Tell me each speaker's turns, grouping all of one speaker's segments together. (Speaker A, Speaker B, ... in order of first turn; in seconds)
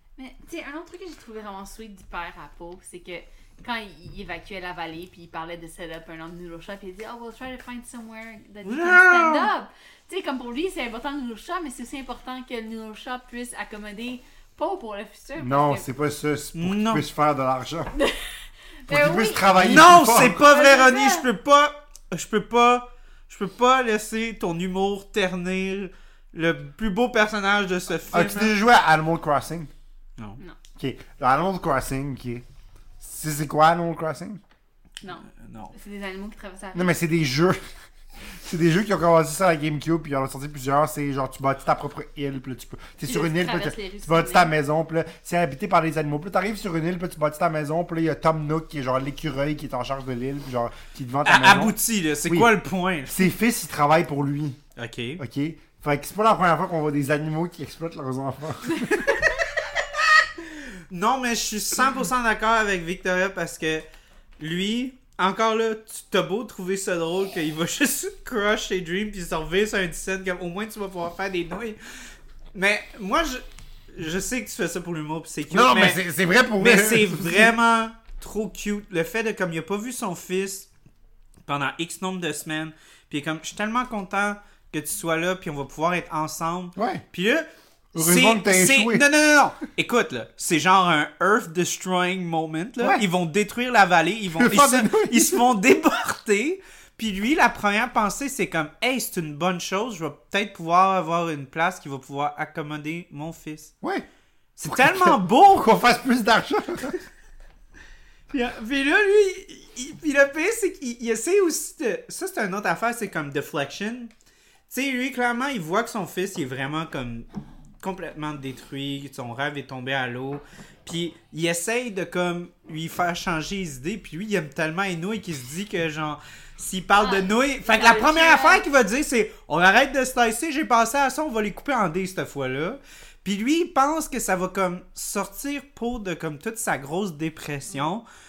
Speaker A: 0.2-15.8, 17.9-19.6, 20.1-21.2, 35.0-36.9, 43.0-44.5, 127.0-128.6
Speaker B: 8.6-9.5, 16.5-17.0, 19.5-28.5, 35.4-35.7, 51.2-53.3, 54.8-55.2, 60.4-63.9, 64.4-71.8, 72.5-76.0, 76.6-80.7, 81.5-103.7, 104.6-105.7, 108.3-114.1, 114.7-117.2, 117.8-138.0
Speaker C: 15.4-17.9, 18.9-20.4, 28.1-29.7, 30.8-32.4, 33.0-34.4, 36.7-37.6, 38.3-51.7, 52.2-52.5, 53.1-54.6, 55.2-59.2, 75.5-77.5, 86.8-87.0, 87.9-89.0, 94.3-95.4, 104.7-106.9